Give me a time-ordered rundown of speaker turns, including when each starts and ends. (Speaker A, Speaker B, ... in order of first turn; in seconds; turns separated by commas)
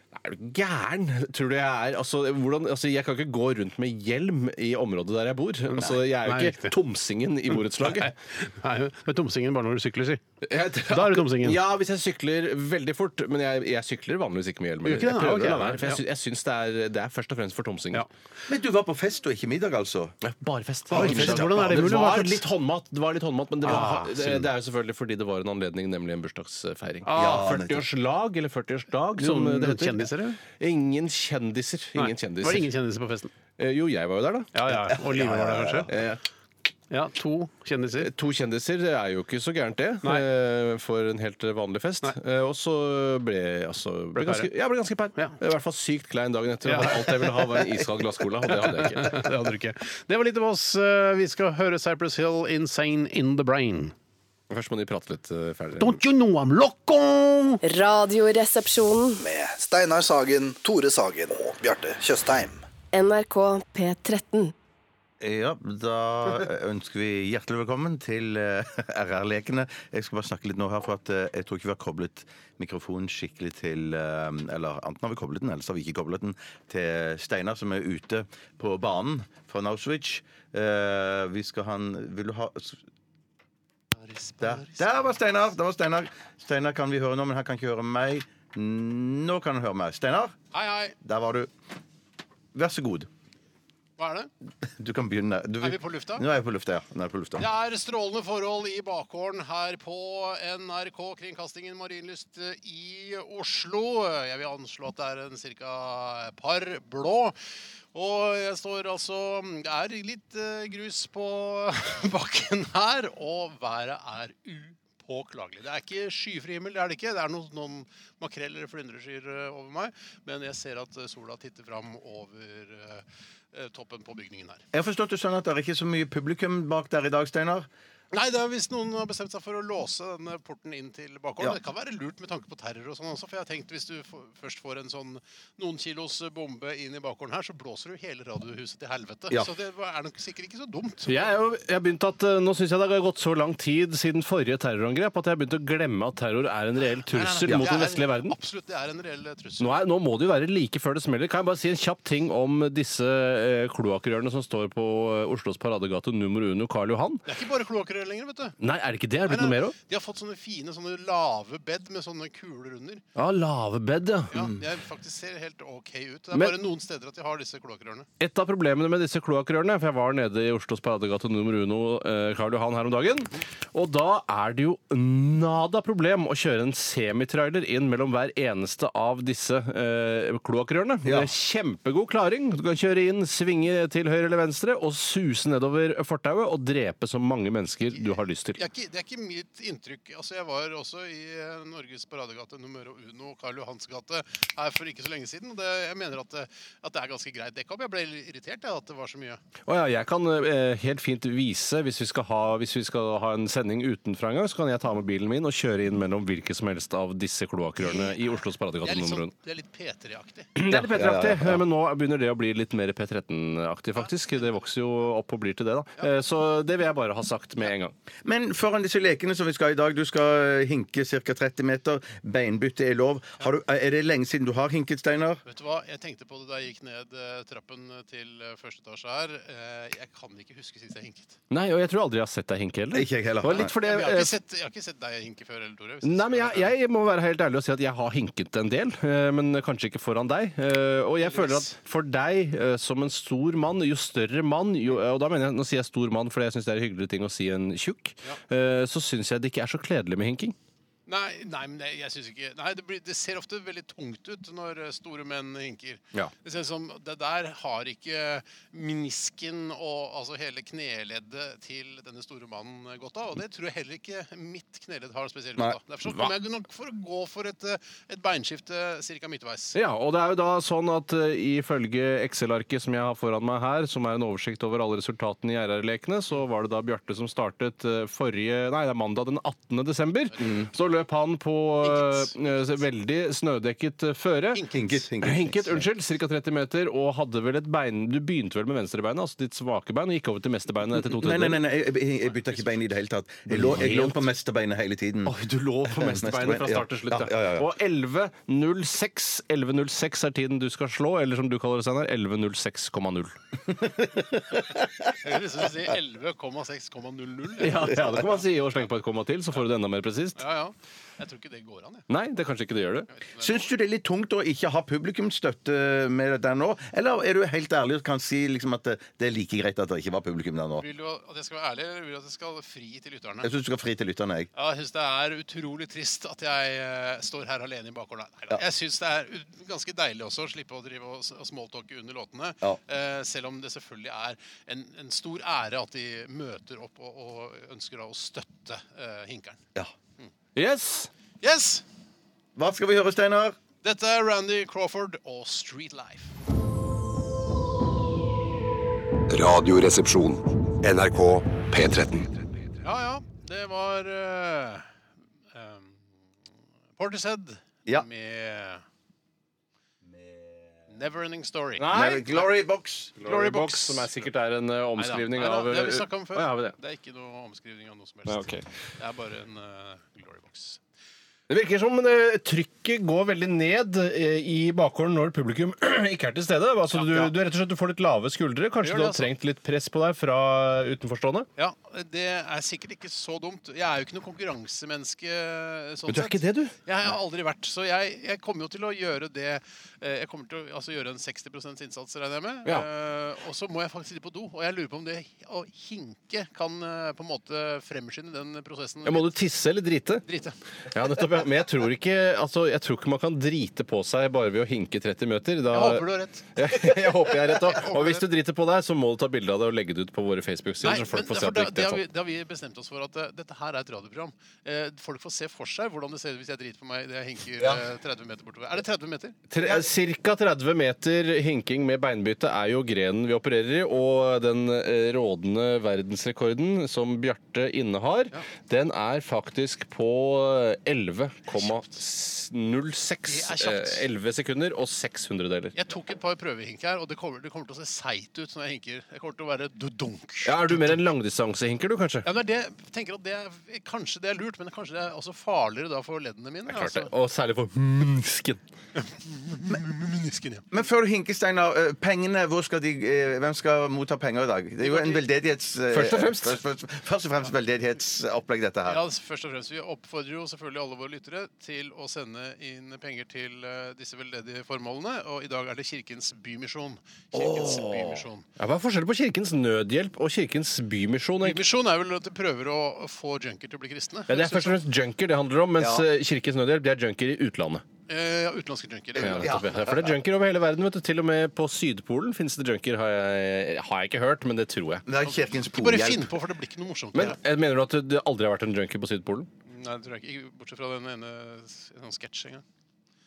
Speaker A: 0.1-8.1, Speaker B: 5.7-6.7, Speaker B: 7.5-10.2, Speaker A: 10.4-18.1, Speaker B: 10.9-11.6, Speaker B: 14.8-16.0, Speaker C: 18.5-20.1, Speaker A: 20.2-32.7, Speaker B: 20.9-22.4, Speaker C: 20.9-21.8, Speaker B: 23.6-24.4, Speaker C: 23.7-24.4, Speaker B: 27.0-27.5, Speaker C: 27.1-27.9, Speaker B: 29.2-30.4, Speaker B: 31.9-33.3, Speaker A: 33.6-34.5, Speaker B: 34.5-35.9, Speaker C: 34.7-35.9, Speaker A: 35.9-36.2, Speaker B: 36.9-38.1, Speaker A: 38.0-49.2, Speaker B: 44.1-44.5, Speaker B: 46.6-47.1, Speaker B: 48.6-53.9, Speaker A: 54.5-56.0, Speaker B: 55.8-57.6, Speaker D: 57.6-59.2, Speaker E: 59.2-62.6, Speaker D: 62.9-64.5, Speaker C: 65.2-82.8, Speaker B: 84.0-85.1, Speaker C: 84.4-90.3, Speaker B: 90.5-91.0, Speaker C: 91.0-91.5, Speaker C: 92.5-93.1, Speaker B: 94.0-94.3, Speaker C: 94.8-97.5, Speaker B: 95.6-96.2, Speaker B: 97.4-107.3, Speaker B: 107.9-124.6, Speaker C: 124.7-127.7, Speaker B: 128.1-141.2, Speaker A: 141.1-148.3, Speaker B: 147.0-149.8, Speaker C: 147.4-147.8, Speaker A: 149.6-157.2, Speaker B: 157.3-158.6, Speaker A: 158.6-159.7, Speaker B: 159.2-163.0, Speaker A: 163.1-164.4, Speaker B: 164.3-168.1, Speaker A: 168.2-188.6, Speaker C: 181.0-181.3, Speaker B: 187.9-199.4, Speaker A: 199.7-209.3, Speaker B: 207.8-210.7, Speaker A: 210.6-217.9, Speaker C: 210.7-211.6, Speaker C: 218.2-225.4, Speaker B: 225.4-231.4, Speaker A: 231.5-234.4, Speaker C: 232.9-233.7, Speaker B: 233.5-236.7, Speaker A: 236.0-250.5, Speaker B: 241.2-241.7, Speaker B: 251.1-269.8, Speaker A: 266.1-266.3, Speaker A: 269.7-284.6, Speaker C: 280.4-280.7, Speaker B: 281.8-282.3, Speaker B: 284.5-284.9, Speaker C: 284.7-285.9, Speaker A: 285.2-291.6, Speaker C: 290.9-295.4, Speaker A: 293.5-294.3, Speaker A: 295.2-303.4, Speaker C: 295.9-297.7, Speaker C: 303.7-305.1, Speaker B: 305.1-308.2, Speaker A: 307.6-310.4, Speaker B: 310.4-312.1, Speaker A: 312.1-313.1, Speaker B: 313.1-313.7, Speaker C: 313.4-320.9, Speaker B: 320.8-323.5, Speaker C: 323.4-324.5, Speaker B: 324.6-339.6, Speaker A: 340.6-341.1, Speaker B: 341.4-341.8, Speaker C: 342.6-343.6, Speaker B: 343.8-346.3, Speaker F: 349.3-352.3, Speaker B: 352.8-354.9, Speaker B: 355.5-356.0, Speaker B: 357.0-358.8, Speaker B: 360.9-361.9, Speaker A: 361.8-362.4, Speaker C: 361.9-363.2, Speaker A: 363.2-366.8, Speaker B: 363.2-364.1, Speaker B: 365.0-370.8, Speaker A: 368.2-368.6, Speaker A: 371.5-381.5, Speaker B: 378.8-379.3, Speaker B: 381.6-399.3, Speaker A: 386.1-386.7, Speaker A: 399.0-400.2, Speaker B: 400.2-400.6, Speaker A: 400.9-412.0, Speaker B: 405.7-408.3, Speaker B: 410.8-419.4, Speaker A: 419.5-435.7, Speaker B: 433.3-434.0, Speaker B: 435.7-441.0, Speaker A: 440.4-442.3, Speaker B: 442.2-447.1, Speaker A: 446.7-448.6, Speaker B: 449.0-450.7, Speaker C: 450.7-459.0, Speaker B: 454.8-455.2, Speaker A: 455.9-456.6, Speaker B: 458.9-468.4, Speaker C: 467.3-468.1, Speaker A: 468.6-471.6, Speaker B: 471.4-474.8, Speaker A: 474.3-477.8, Speaker C: 475.8-476.1, Speaker B: 478.1-479.6, Speaker C: 479.1-480.1, Speaker A: 479.2-485.0, Speaker C: 485.1-486.3, Speaker B: 485.2-487.4, Speaker A: 487.1-489.5, Speaker B: 489.7-492.6